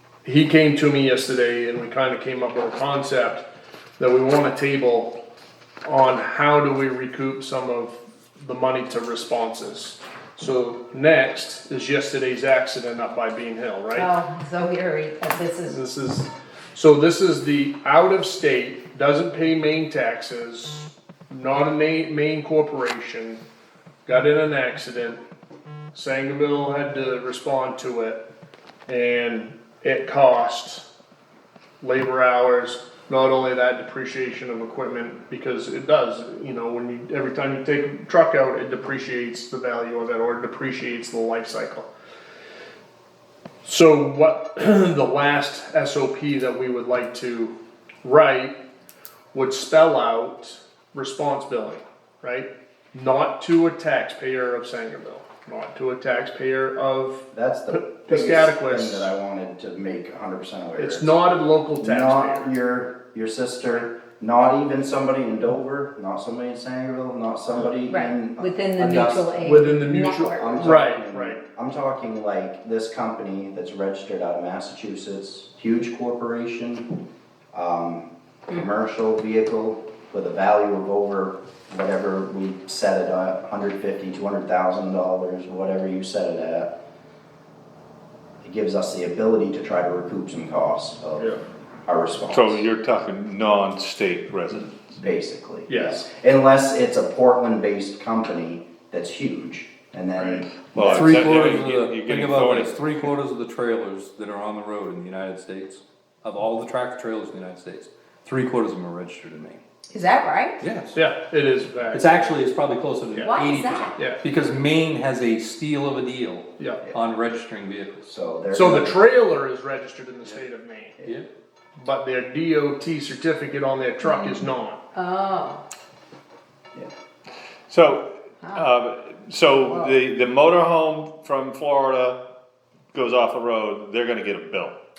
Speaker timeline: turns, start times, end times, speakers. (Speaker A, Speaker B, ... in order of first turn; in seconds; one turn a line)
Speaker A: 0.2-3.4
Speaker A: 4.0-5.1
Speaker A: 5.8-14.1
Speaker B: 13.9-15.8
Speaker A: 15.7-23.4
Speaker A: 24.1-25.2
Speaker A: 25.9-28.2
Speaker A: 28.9-30.8
Speaker A: 31.8-41.9
Speaker A: 43.6-48.6
Speaker A: 49.3-59.1
Speaker C: 57.3-61.2
Speaker A: 60.8-62.5
Speaker C: 61.8-69.6
Speaker B: 67.8-70.7
Speaker A: 69.4-71.4
Speaker C: 70.3-77.0
Speaker C: 77.5-86.7
Speaker C: 88.4-92.6
Speaker D: 92.3-94.8
Speaker C: 94.9-101.2
Speaker A: 95.7-96.0
Speaker A: 100.2-100.4
Speaker D: 100.7-102.8
Speaker E: 100.8-109.6
Speaker B: 109.9-110.6
Speaker E: 110.6-111.0
Speaker A: 110.9-112.2
Speaker E: 111.9-118.1
Speaker B: 113.2-114.0
Speaker C: 118.1-119.0
Speaker A: 118.5-121.0
Speaker A: 121.8-124.8
Speaker B: 124.0-124.4
Speaker B: 124.9-125.6
Speaker D: 127.7-132.2
Speaker B: 128.4-128.7
Speaker B: 129.6-130.0
Speaker D: 132.9-134.8